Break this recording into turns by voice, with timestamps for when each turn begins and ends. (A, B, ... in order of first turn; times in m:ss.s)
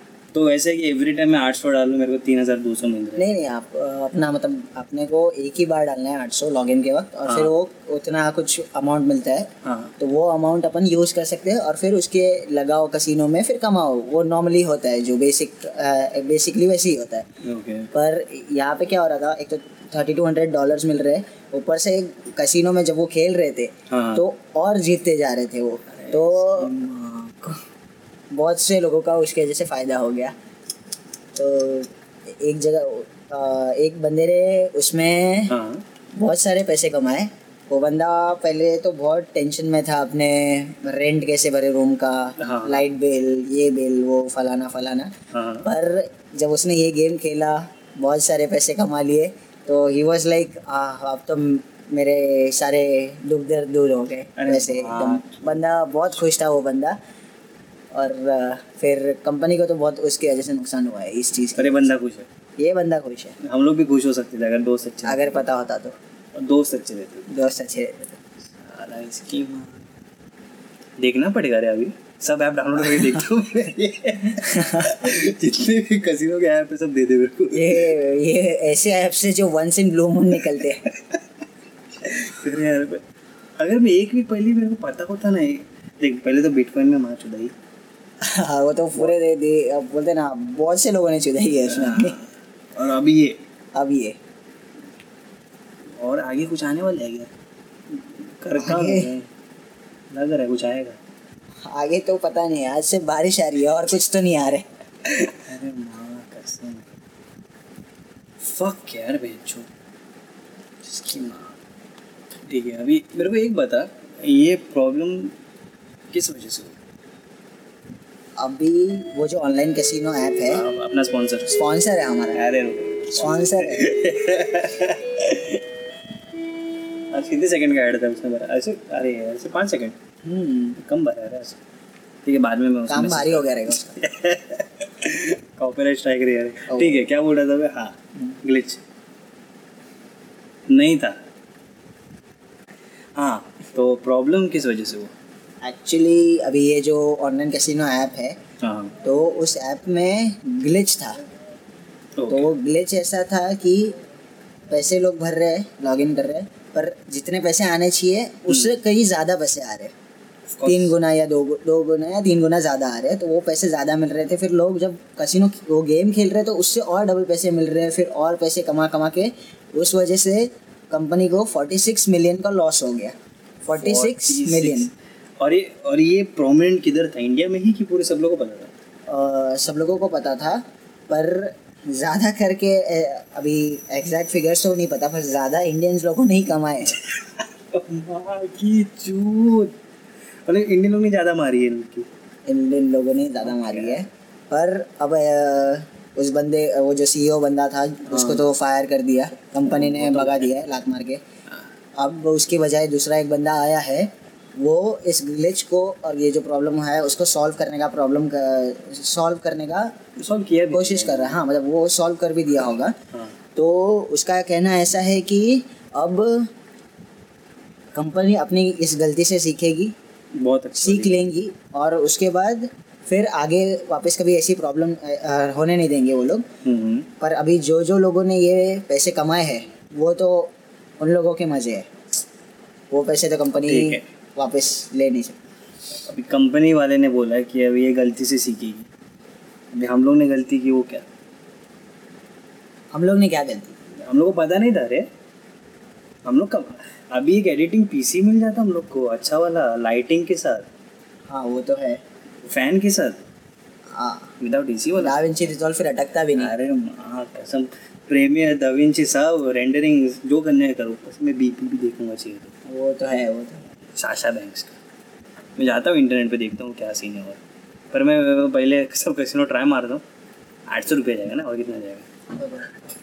0:00.3-0:03.3 A
0:03.2-0:17.2 B
0:07.3-0:07.5 A
0:09.6-0:09.9 A
0:17.4-0:17.9 A
0:17.9-0:26.8 B
0:23.9-0:24.2 A
0:25.9-0:27.5 A
0:28.3-0:30.3 B
0:31.3-0:35.6 B
0:35.5-0:35.8 A
0:36.1-0:45.1 B
0:42.4-0:42.8 A
0:45.3-0:45.7 A
0:45.6-0:57.0 B
0:54.4-0:55.6 A
0:57.9-1:01.9 B
1:01.5-1:02.3 A
1:02.6-1:03.4 B
1:03.4-1:05.4 A
1:05.0-1:05.9 B
1:06.4-1:07.3 A
1:07.3-1:08.2 B
1:08.6-1:09.8 A
1:11.0-1:17.9 A
1:14.5-1:14.8 B
1:17.5-1:20.8 B
1:22.0-1:23.0 A
1:23.6-1:27.5 A
1:28.2-1:32.2 B
1:31.7-1:32.2 A
1:32.8-1:33.4 A
1:33.7-1:34.2 B
1:36.0-1:37.3 A
1:37.9-1:39.3 A
1:38.5-1:39.1 B
1:40.1-1:41.0 A
1:41.6-1:44.6 B
1:45.2-1:47.0 A
1:48.4-1:49.7 A
1:50.8-1:51.6 A
1:52.5-1:55.3 A
1:56.1-1:56.7 A
1:58.4-2:00.6 B
2:00.5-2:01.5 A
2:01.4-2:02.4 B
2:02.3-2:05.6 A
2:03.1-2:03.9 B
2:07.1-2:10.0 A
2:10.2-2:10.8 B
2:10.8-2:11.6 A
2:12.2-2:18.8 A
2:12.9-2:14.0 B
2:16.7-2:17.0 B
2:20.7-2:21.2 A
2:23.2-2:25.1 A
2:25.6-2:28.4 B
2:28.6-2:29.0 A
2:29.0-2:31.2 B
2:32.2-2:32.5 A
2:32.3-2:34.0 B
2:34.7-2:39.9 B
2:38.5-2:38.8 A
2:40.5-2:40.9 A
2:40.6-2:54.9 B
2:53.8-2:58.7 A
2:59.1-3:07.0 B
3:06.9-3:09.7 A
3:10.4-3:12.1 A
3:12.5-3:21.2 B
3:13.4-3:14.0 A
3:18.1-3:18.4 A
3:19.7-3:20.5 A
3:22.0-3:29.9 B
3:30.2-3:31.4 A
3:30.7-3:32.9 B
3:33.6-3:36.5 B
3:37.9-3:39.9 B
3:40.4-3:41.3 A
3:40.8-3:46.4 B
3:46.6-3:47.1 A
3:47.2-3:51.9 B
3:52.9-3:55.4 B
3:53.6-3:54.0 A
3:56.1-3:58.9 A
3:59.7-4:01.0 A
4:02.9-4:03.8 B
4:04.0-4:05.0 A
4:06.2-4:10.6 A
4:11.3-4:12.0 B
4:12.4-4:13.2 A
4:14.0-4:14.3 B
4:14.4-4:15.4 A
4:15.0-4:16.5 B
4:16.3-4:22.5 A
4:22.7-4:23.6 B
4:24.0-4:24.7 A
4:25.6-4:27.4 A
4:27.9-4:30.0 A
4:30.7-4:32.0 A
4:32.4-4:32.7 B